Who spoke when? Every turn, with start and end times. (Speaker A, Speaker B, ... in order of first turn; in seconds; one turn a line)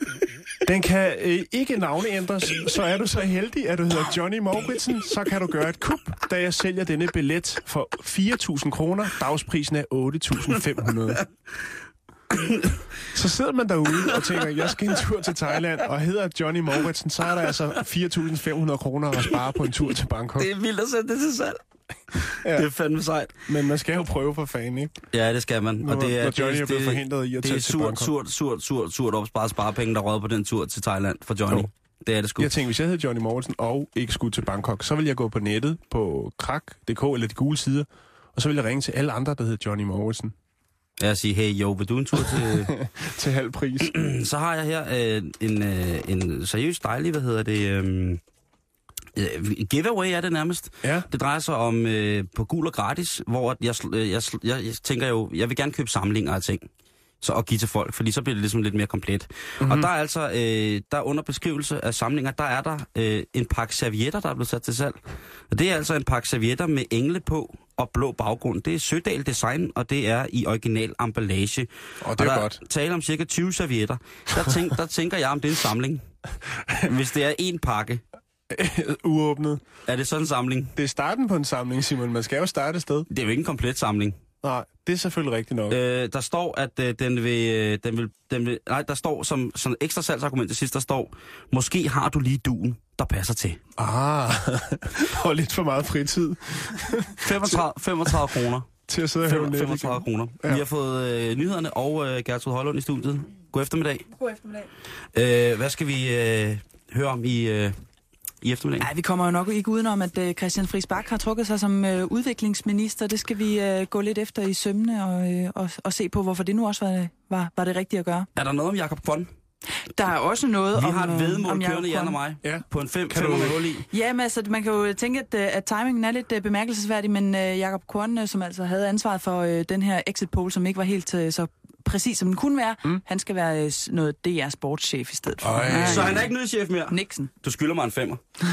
Speaker A: 0.7-11.2
Speaker B: 12.5-12.7
Speaker A: 13.1-20.5
Speaker B: 20.4-21.6
Speaker B: 22.1-23.3
Speaker A: 22.4-22.7
Speaker A: 23.5-25.0
Speaker B: 25.1-32.5
Speaker A: 25.8-28.1
Speaker A: 32.4-40.3
Speaker B: 41.0-42.8
Speaker A: 42.2-44.0
Speaker B: 43.8-48.2
Speaker B: 49.2-56.7
Speaker A: 50.8-51.1
Speaker B: 57.2-65.0
Speaker A: 59.6-59.9
Speaker B: 65.5-76.0
Speaker A: 72.0-72.6
Speaker B: 76.8-78.0
Speaker A: 78.5-79.6
Speaker B: 79.9-80.7
Speaker A: 80.8-83.1
Speaker B: 83.1-84.2
Speaker A: 84.4-85.8
Speaker B: 85.7-93.6
Speaker A: 93.8-98.3
Speaker B: 97.2-98.7
Speaker A: 98.9-100.7
Speaker B: 99.2-104.1
Speaker C: 104.2-104.7
Speaker B: 105.2-107.8
Speaker B: 108.4-108.9
Speaker C: 108.8-118.3
Speaker B: 118.3-119.3
Speaker C: 119.9-122.2
Speaker B: 120.8-123.9
Speaker A: 122.4-123.6
Speaker C: 123.9-136.3
Speaker A: 135.4-136.2
Speaker B: 135.7-138.2
Speaker C: 136.9-137.3